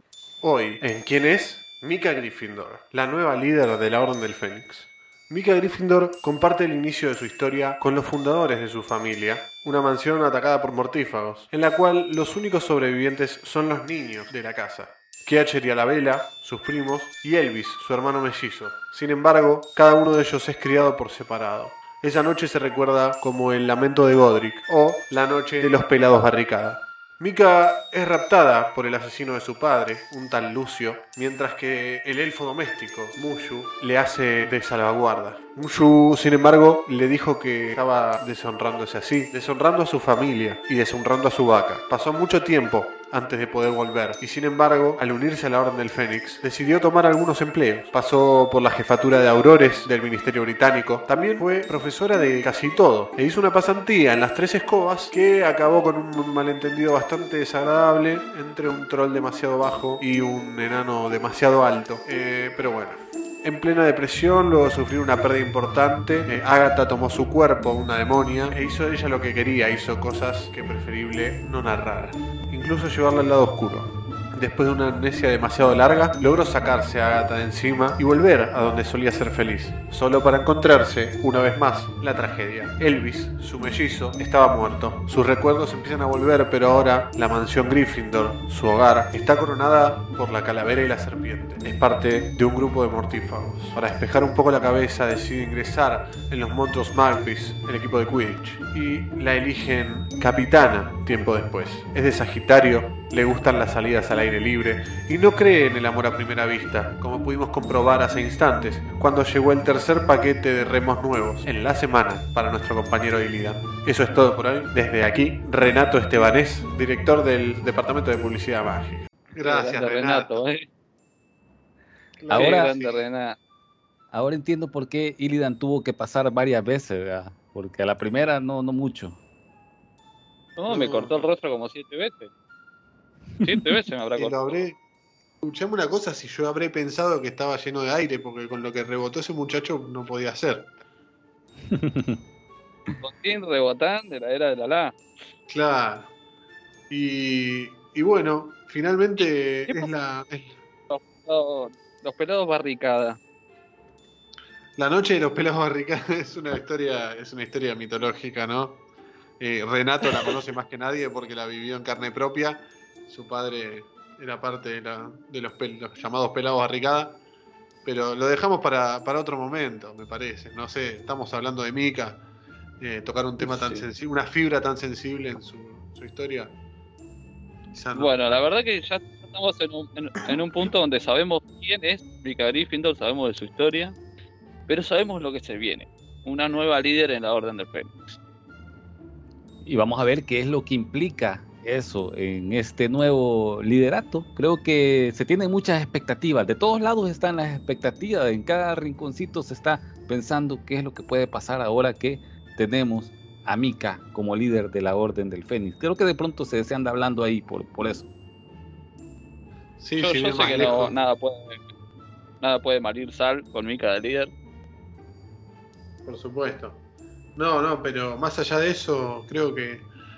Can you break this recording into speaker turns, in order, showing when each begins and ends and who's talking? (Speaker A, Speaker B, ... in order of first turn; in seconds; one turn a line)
Speaker A: 0.4-120.3
Speaker B: 119.4-120.7
Speaker A: 122.2-123.0
Speaker C: 122.3-122.7
Speaker B: 122.3-123.3
Speaker C: 124.1-129.2
Speaker B: 130.6-132.3
Speaker A: 130.7-131.2
Speaker C: 133.4-133.7
Speaker B: 133.4-134.6
Speaker A: 134.2-134.8
Speaker A: 135.4-140.7
Speaker C: 141.7-142.2
Speaker B: 143.0-144.9
Speaker A: 145.5-146.1
Speaker A: 146.9-150.6
Speaker B: 150.9-153.2
Speaker A: 154.8-158.8
Speaker A: 159.4-167.2
Speaker A: 167.8-172.2
Speaker A: 172.8-176.5
Speaker B: 173.4-173.8
Speaker A: 177.7-178.1
Speaker B: 177.9-184.0
Speaker B: 184.7-188.2
Speaker C: 189.6-208.1
Speaker A: 209.8-210.9
Speaker B: 210.0-211.6
Speaker B: 212.4-214.3
Speaker A: 216.0-216.8
Speaker A: 217.3-219.9